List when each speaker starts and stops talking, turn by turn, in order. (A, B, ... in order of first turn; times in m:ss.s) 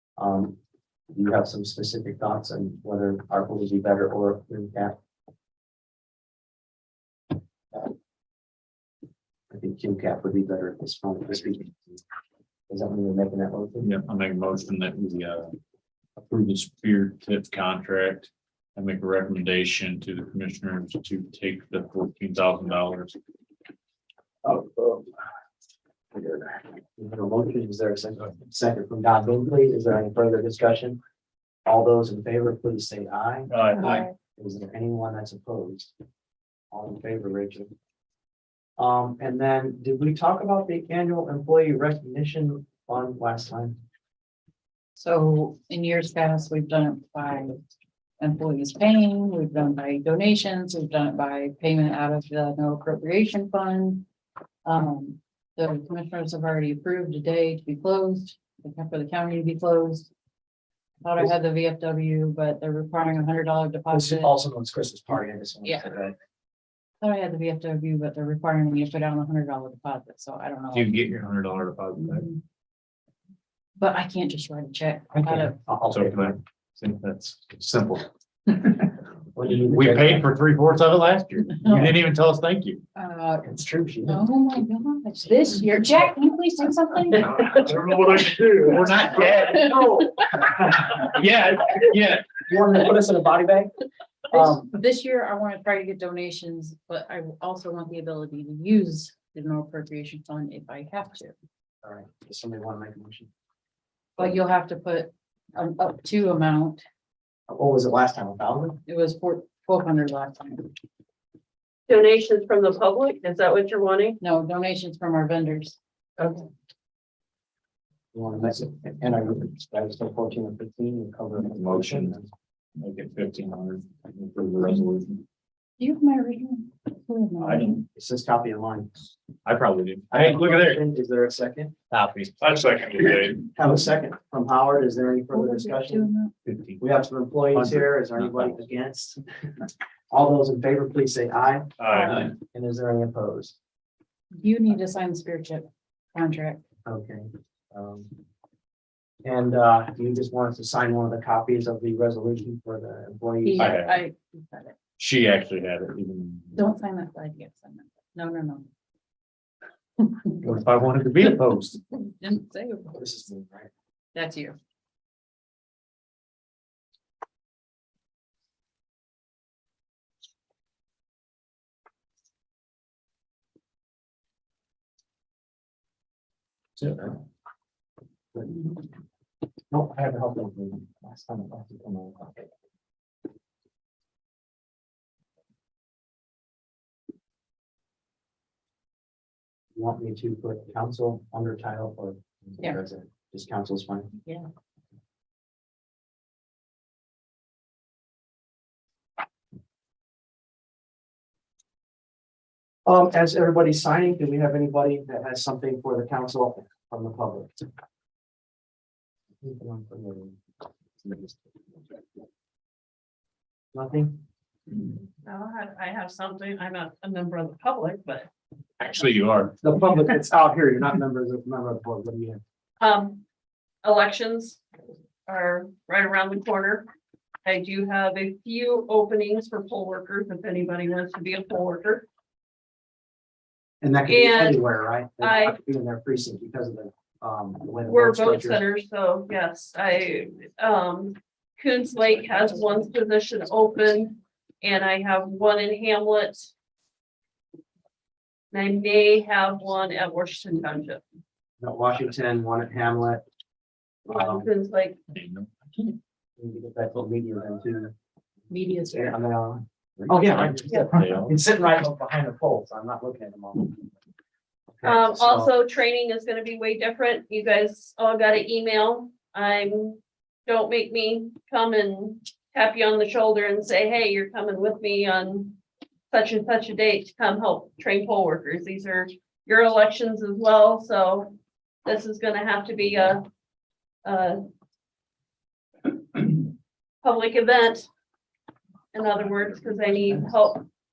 0:00.2-0:00.6 A
0:01.1-0:05.0 A
0:09.5-0:12.0 A
0:12.7-0:13.9 A
0:13.8-0:15.6 B
0:16.2-0:23.2 B
0:24.4-0:25.1 A
0:26.2-0:31.0 A
0:31.7-0:35.9 A
0:33.5-0:34.1 B
0:36.7-0:37.7 A
0:38.8-0:43.8 A
0:45.0-0:47.6 C
0:48.2-0:54.1 C
0:54.6-1:00.1 C
1:01.0-1:04.3 C
1:03.9-1:06.2 A
1:05.6-1:05.9 C
1:07.0-1:10.9 C
1:10.7-1:12.3 B
1:12.1-1:12.4 C
1:13.8-1:15.6 C
1:15.1-1:16.4 A
1:15.9-1:18.9 B
1:19.4-1:20.3 A
1:19.4-1:22.8 B
1:21.6-1:21.9 C
1:23.0-1:23.5 C
1:23.4-1:24.2 A
1:24.1-1:27.8 C
1:27.3-1:32.4 B
1:29.4-1:31.0 A
1:32.5-1:33.7 A
1:34.3-1:41.3 C
1:34.3-1:34.7 A
1:41.8-1:43.3 A
1:44.2-1:46.8 C
1:47.5-1:48.8 A
1:48.9-1:50.7 C
1:51.9-1:54.2 D
1:54.2-1:55.8 C
1:58.1-2:02.3 A
2:01.4-2:02.2 B
2:02.8-2:05.2 B
2:05.8-2:07.9 C
2:07.4-2:07.8 B
2:07.9-2:08.9 A
2:09.4-2:10.8 B
2:10.1-2:11.8 A
2:11.9-2:13.5 B
2:13.6-2:16.1 A
2:15.3-2:16.3 C
2:16.4-2:16.8 B
2:16.8-2:19.2 A
2:17.5-2:18.6 B
2:20.1-2:23.6 A
2:21.8-2:22.3 B
2:24.3-2:26.6 C
2:26.9-2:28.1 A
2:29.2-2:33.8 A
2:33.4-2:34.8 C
2:33.6-2:34.0 B
2:35.0-2:36.6 B
2:36.6-2:38.7 C
2:40.0-2:40.4 C
2:40.4-2:41.8 B
2:41.9-2:43.0 C
2:42.9-2:43.7 A
2:44.2-2:44.6 C
2:56.8-2:57.1 B
2:58.4-2:58.8 A
2:59.7-3:02.5 A
3:09.8-3:14.1 A
3:22.9-3:27.6 A
3:29.4-3:30.4 A
3:31.0-3:31.5 A
3:33.7-3:34.2 A
3:35.2-3:38.3 D
3:38.8-3:39.6 B
3:39.6-3:42.4 A
3:42.8-3:43.2 D
3:43.8-3:44.6 D
3:45.3-3:46.9 D
3:47.4-3:52.1 D
3:53.8-3:58.6 A
3:54.1-3:54.6 D
3:55.2-3:55.6 D
3:57.9-4:06.5 D
4:08.5-4:11.0 D
4:11.6-4:13.2 A
4:14.1-4:14.5 A
4:14.1-4:15.0 D
4:15.1-4:16.0 B
4:16.4-4:17.9 A
4:18.5-4:19.2 C
4:18.9-4:23.9 A
4:20.0-4:21.3 B
4:24.7-4:25.5 A
4:24.8-4:35.6 D
4:36.1-4:43.3 D
4:44.0-4:44.4 D
4:46.2-4:46.4 D
4:47.0-4:47.9 D
4:48.9-4:50.6 D